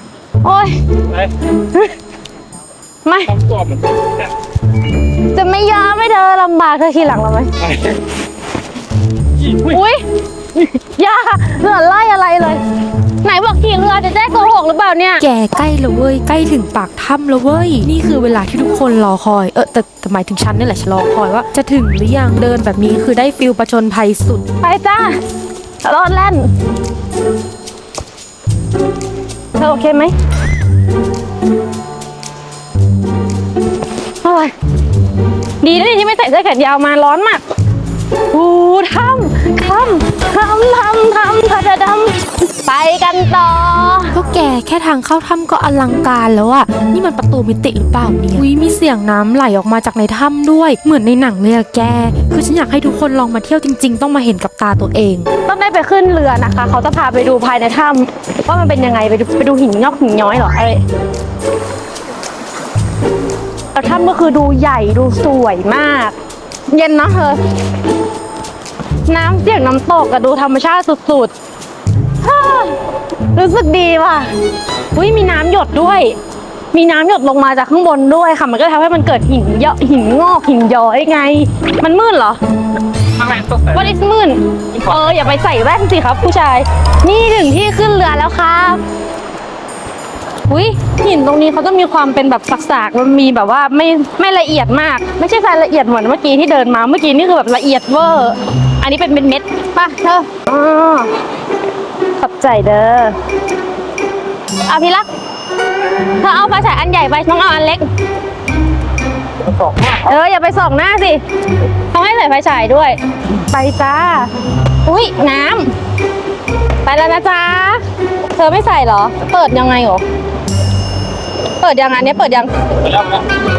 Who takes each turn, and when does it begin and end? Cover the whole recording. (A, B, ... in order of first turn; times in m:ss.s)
0:00.4-0:00.8 A
0:03.0-0:03.3 A
0:03.3-0:04.2 B
0:05.3-0:07.5 A
0:07.6-0:08.0 B
0:09.4-0:09.8 B
0:09.7-0:10.0 A
0:10.6-0:12.6 A
0:13.2-0:15.2 A
0:15.2-0:24.4 C
0:24.6-0:25.2 A
0:25.8-0:26.5 A
0:29.6-0:30.1 A
0:34.2-0:34.5 A
0:35.6-0:37.4 A
0:38.3-0:44.2 A
0:44.1-0:55.3 C
0:55.5-1:00.8 A
1:03.8-1:06.2 A
1:06.7-1:07.4 A
1:09.1-1:11.3 A
1:12.2-1:12.8 A
1:13.4-1:14.3 A
1:15.0-1:16.2 A
1:16.7-1:22.4 A
1:23.2-1:23.8 B
1:23.7-1:28.8 A
1:30.5-1:41.1 A
1:42.2-1:43.2 A
1:44.7-1:45.1 A
1:46.2-1:47.8 A
1:49.6-1:51.2 A
1:51.9-1:53.0 A
1:53.5-1:54.3 A
1:54.8-1:55.7 A
1:56.8-1:57.8 A
1:58.4-2:00.0 A
2:01.6-2:02.5 A